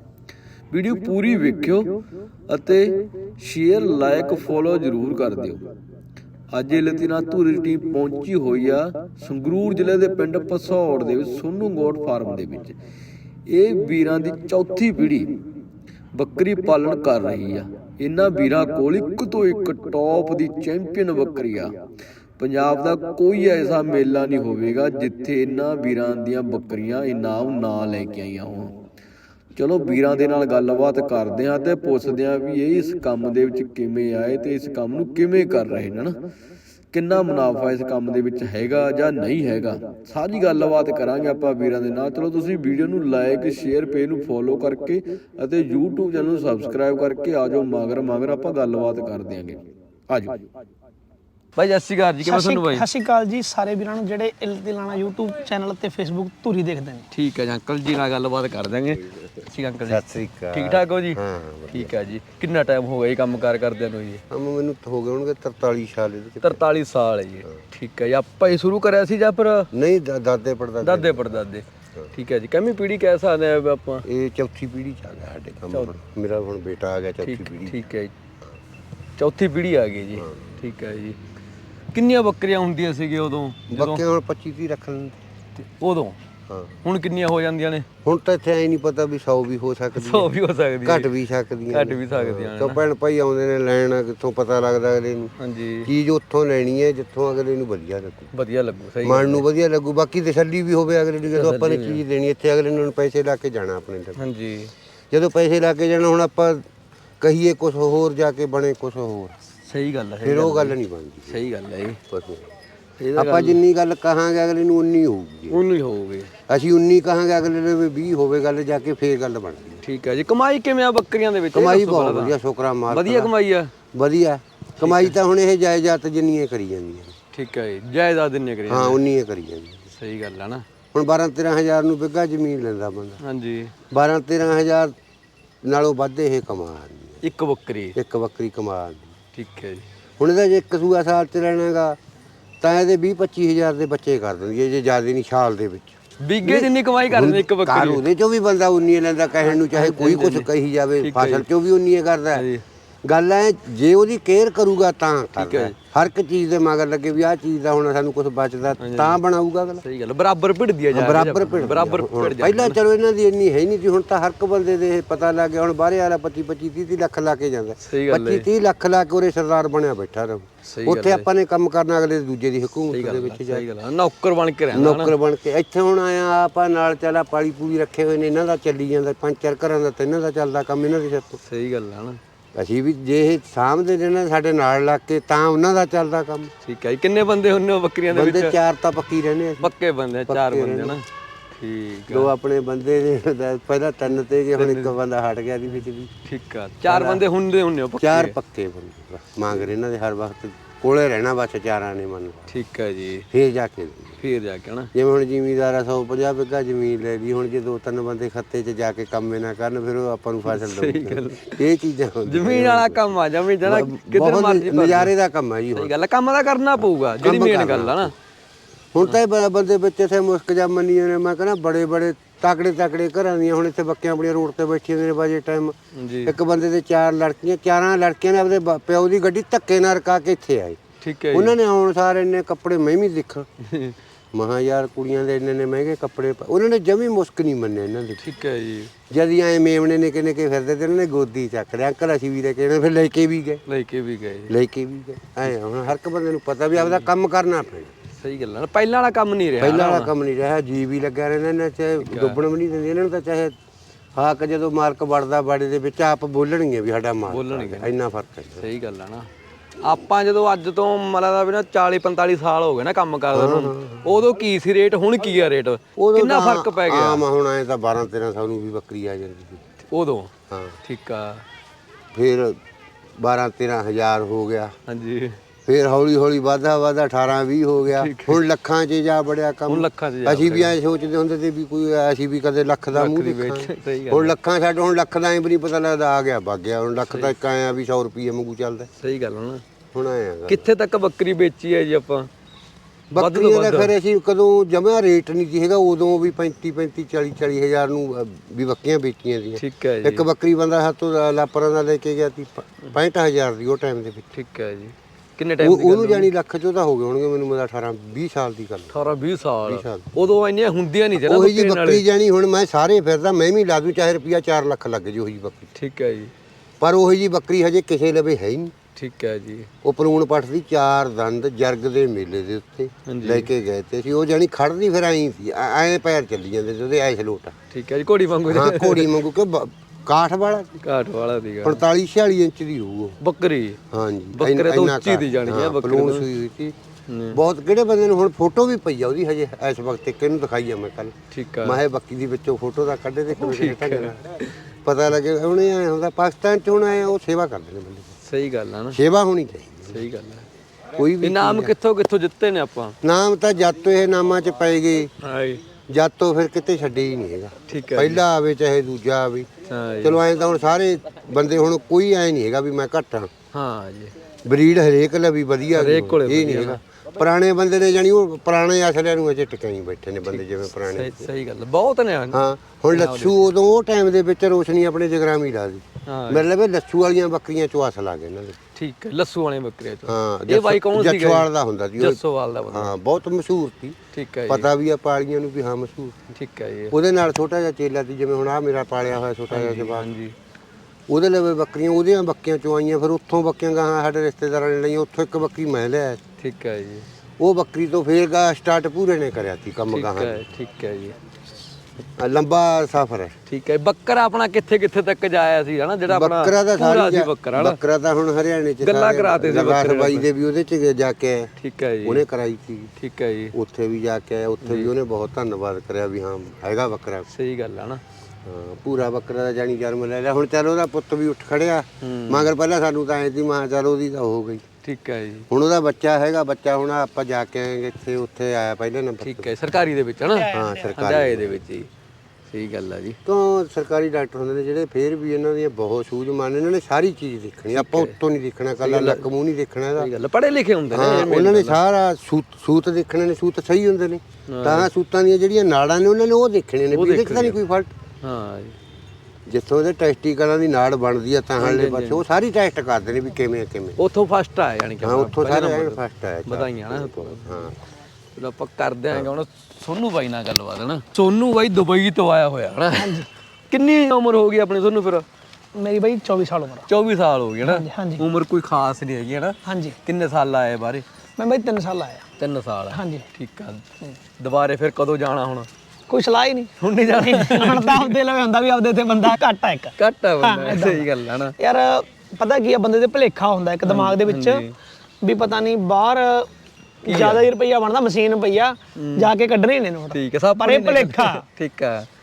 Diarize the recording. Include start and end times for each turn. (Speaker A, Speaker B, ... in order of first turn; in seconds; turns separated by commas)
Speaker A: 0.7-2.0, Speaker A: 2.5-5.7, Speaker A: 6.5-12.8, Speaker A: 13.5-15.4, Speaker A: 16.1-21.7, Speaker A: 22.4-28.8, Speaker A: 29.6-36.2, Speaker A: 36.9-50.5, Speaker A: 51.6-52.9, Speaker B: 52.2-57.0, Speaker A: 57.1-64.2, Speaker C: 59.9-62.0, Speaker C: 64.3-66.6, Speaker A: 66.4-69.7, Speaker C: 69.7-71.3, Speaker A: 70.8-74.1, Speaker C: 74.0-77.8, Speaker A: 77.2-78.1, Speaker A: 79.2-81.2, Speaker A: 81.9-84.0, Speaker C: 83.7-85.2, Speaker A: 85.6-86.2, Speaker C: 86.5-86.8, Speaker A: 86.8-87.9, Speaker C: 88.0-90.3, Speaker A: 89.9-91.1, Speaker C: 90.8-95.3, Speaker A: 91.7-92.8, Speaker A: 95.4-95.9, Speaker C: 95.8-98.3, Speaker A: 98.3-99.5, Speaker C: 99.0-104.2, Speaker A: 101.4-102.0, Speaker A: 104.2-104.7, Speaker C: 105.1-106.7, Speaker C: 107.2-109.4, Speaker A: 109.7-110.8, Speaker C: 110.2-111.4, Speaker A: 111.3-112.0, Speaker C: 112.1-112.5, Speaker A: 113.0-113.6, Speaker C: 113.2-115.6, Speaker A: 115.5-116.3, Speaker C: 116.5-119.8, Speaker A: 119.8-122.4, Speaker C: 121.5-123.3, Speaker A: 122.9-123.7, Speaker C: 123.9-127.1, Speaker A: 124.8-125.2, Speaker A: 127.3-129.0, Speaker C: 128.7-129.8, Speaker A: 129.9-130.7, Speaker C: 130.9-133.2, Speaker A: 133.2-133.7, Speaker C: 133.9-134.9, Speaker C: 135.6-137.2, Speaker A: 137.2-138.0, Speaker C: 137.9-139.1, Speaker A: 139.3-139.9, Speaker C: 140.2-142.0, Speaker C: 142.6-152.5, Speaker A: 146.2-148.0, Speaker A: 149.5-150.5, Speaker A: 151.0-151.4, Speaker A: 152.3-152.6, Speaker C: 153.1-159.8, Speaker A: 155.4-155.8, Speaker A: 158.8-159.2, Speaker A: 159.8-162.8, Speaker C: 160.9-173.7, Speaker A: 167.8-168.5, Speaker A: 170.7-171.3, Speaker A: 172.9-175.1, Speaker C: 174.7-181.4, Speaker A: 181.4-182.2, Speaker C: 182.6-186.5, Speaker A: 186.6-188.6, Speaker C: 188.1-189.7, Speaker A: 189.6-192.3, Speaker C: 190.3-191.0, Speaker C: 192.1-196.1, Speaker A: 194.6-194.9, Speaker A: 196.2-198.4, Speaker C: 196.9-197.2, Speaker C: 198.0-202.6, Speaker A: 202.5-203.3, Speaker C: 203.3-204.2, Speaker A: 204.2-204.9, Speaker C: 204.9-215.9, Speaker A: 210.5-211.6, Speaker A: 212.3-215.1, Speaker A: 215.7-218.1, Speaker C: 217.2-218.1, Speaker C: 218.9-230.8, Speaker A: 225.9-226.3, Speaker A: 231.0-231.6, Speaker C: 231.3-233.5, Speaker A: 233.6-234.0, Speaker C: 234.3-238.2, Speaker A: 238.2-238.9, Speaker C: 239.1-243.6, Speaker A: 243.7-244.5, Speaker C: 244.5-247.9, Speaker A: 248.2-250.1, Speaker C: 249.6-253.6, Speaker A: 252.0-252.4, Speaker C: 254.2-258.7, Speaker A: 257.3-257.9, Speaker A: 258.6-259.3, Speaker A: 259.8-267.2, Speaker C: 263.3-264.1, Speaker C: 266.0-269.6, Speaker A: 269.9-270.3, Speaker C: 270.5-270.8, Speaker A: 270.8-271.4, Speaker C: 272.1-272.6, Speaker C: 273.2-274.7, Speaker A: 274.9-275.4, Speaker C: 275.6-288.9, Speaker A: 277.9-278.4, Speaker A: 279.7-280.8, Speaker A: 282.9-284.3, Speaker A: 289.0-289.6, Speaker C: 289.9-290.7, Speaker A: 290.5-292.3, Speaker C: 293.1-304.3, Speaker A: 293.2-293.9, Speaker A: 299.6-300.2, Speaker A: 304.3-306.3, Speaker C: 305.6-309.0, Speaker A: 308.9-312.0, Speaker C: 309.7-310.1, Speaker C: 311.2-315.7, Speaker A: 315.8-316.3, Speaker C: 316.8-318.7, Speaker A: 319.0-319.7, Speaker C: 319.8-327.6, Speaker A: 323.1-323.5, Speaker A: 327.7-329.1, Speaker C: 328.5-330.8, Speaker A: 330.8-331.8, Speaker C: 331.6-333.2, Speaker A: 333.2-333.8, Speaker C: 333.9-336.8, Speaker A: 334.4-336.3, Speaker A: 337.1-337.4, Speaker C: 337.3-344.2, Speaker A: 341.3-341.8, Speaker A: 343.4-344.6, Speaker C: 344.9-348.1, Speaker A: 348.2-349.0, Speaker C: 348.9-350.0, Speaker A: 349.9-350.5, Speaker C: 351.0-351.7, Speaker A: 351.2-353.0, Speaker C: 353.0-355.1, Speaker A: 355.2-355.6, Speaker C: 355.9-359.5, Speaker A: 357.7-358.2, Speaker A: 359.7-360.2, Speaker C: 360.0-363.3, Speaker A: 363.5-364.1, Speaker C: 364.4-371.3, Speaker A: 365.7-366.8, Speaker A: 370.3-373.5, Speaker C: 372.3-378.6, Speaker A: 376.1-376.4, Speaker A: 378.8-382.9, Speaker C: 380.1-386.2, Speaker A: 384.1-384.7, Speaker A: 386.3-386.9, Speaker C: 386.9-390.1, Speaker A: 389.5-390.3, Speaker C: 391.1-396.2, Speaker A: 396.4-397.1, Speaker C: 397.4-400.4, Speaker A: 399.9-401.2, Speaker C: 402.2-403.4, Speaker A: 403.5-407.8, Speaker C: 406.1-411.5, Speaker A: 408.8-410.3, Speaker A: 411.6-412.2, Speaker C: 412.0-412.9, Speaker A: 413.0-413.5, Speaker C: 413.5-417.3, Speaker A: 414.6-414.9, Speaker A: 417.3-418.0, Speaker C: 418.4-424.6, Speaker A: 422.0-422.5, Speaker A: 424.8-425.5, Speaker C: 425.5-429.5, Speaker A: 429.2-431.9, Speaker B: 430.2-431.0, Speaker C: 430.5-431.6, Speaker A: 432.5-433.2, Speaker C: 433.2-440.1, Speaker A: 437.7-438.2, Speaker A: 438.8-439.3, Speaker A: 440.0-441.8, Speaker C: 440.9-447.9, Speaker A: 444.5-444.9, Speaker A: 446.9-447.6, Speaker A: 448.2-448.8, Speaker C: 449.5-454.0, Speaker A: 451.6-452.2, Speaker A: 454.0-457.5, Speaker C: 455.0-457.8, Speaker A: 458.4-465.3, Speaker B: 462.9-463.3, Speaker B: 465.8-466.9, Speaker A: 466.9-471.0, Speaker B: 467.6-468.2, Speaker B: 469.7-470.0, Speaker B: 471.4-472.2, Speaker A: 472.4-473.8, Speaker B: 472.9-473.2, Speaker A: 474.4-475.7, Speaker B: 476.1-484.6, Speaker A: 476.8-478.2, Speaker A: 480.0-481.6, Speaker A: 483.9-484.7, Speaker B: 485.2-486.5, Speaker B: 487.0-491.4, Speaker A: 487.1-487.5, Speaker A: 489.0-489.3, Speaker A: 490.1-492.1